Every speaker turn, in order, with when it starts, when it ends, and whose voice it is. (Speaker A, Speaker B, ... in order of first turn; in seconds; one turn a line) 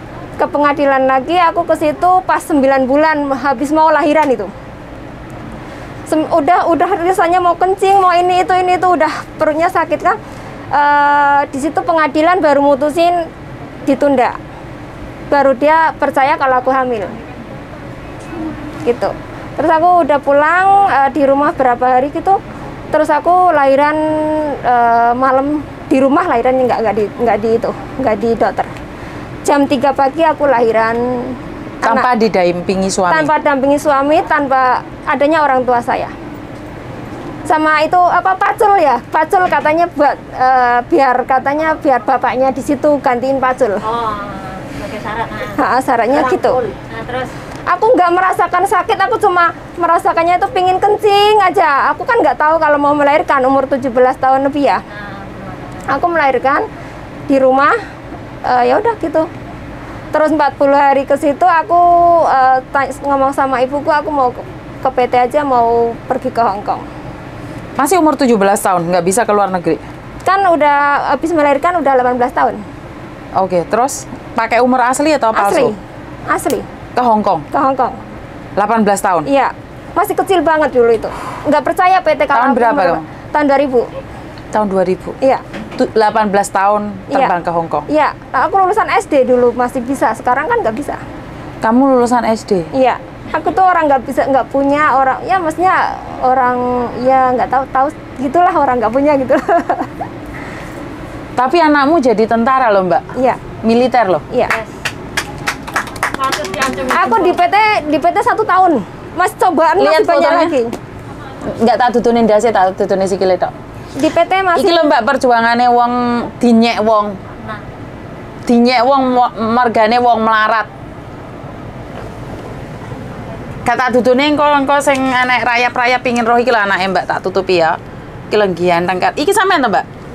Speaker A: 0.4-4.5
Speaker A: 6.1-10.2
Speaker A: 10.7-13.2
Speaker A: 13.8-14.4
Speaker A: 15.3-17.1
Speaker A: 18.8-22.4
Speaker A: 22.9-28.7
Speaker A: 29.4-32.1
Speaker B: 31.8-33.3
Speaker A: 33.1-36.1
Speaker A: 37.5-43.9
Speaker C: 43.9-45.5
Speaker A: 45.5-46.6
Speaker C: 46.3-47.3
Speaker A: 47.6-54.8
Speaker C: 55.0-55.8
Speaker A: 55.8-56.6
Speaker A: 57.3-57.7
Speaker A: 58.4-59.3
Speaker A: 60.1-66.8
Speaker B: 67.8-69.8
Speaker A: 70.2-72.6
Speaker B: 73.3-75.7
Speaker A: 75.3-75.8
Speaker A: 76.3-76.7
Speaker B: 76.9-77.5
Speaker A: 77.5-78.0
Speaker B: 78.5-79.3
Speaker A: 79.2-83.9
Speaker B: 82.3-83.0
Speaker B: 84.5-85.2
Speaker B: 85.7-87.9
Speaker A: 87.9-91.0
Speaker B: 91.6-92.7
Speaker A: 92.7-100.0
Speaker B: 101.3-103.0
Speaker A: 103.2-103.4
Speaker B: 103.6-104.2
Speaker A: 104.3-104.6
Speaker C: 106.1-107.2
Speaker A: 106.9-110.7
Speaker B: 109.8-110.5
Speaker B: 111.4-113.5
Speaker A: 114.0-114.9
Speaker B: 114.5-117.2
Speaker B: 118.5-120.7
Speaker B: 123.6-127.8
Speaker B: 128.3-129.8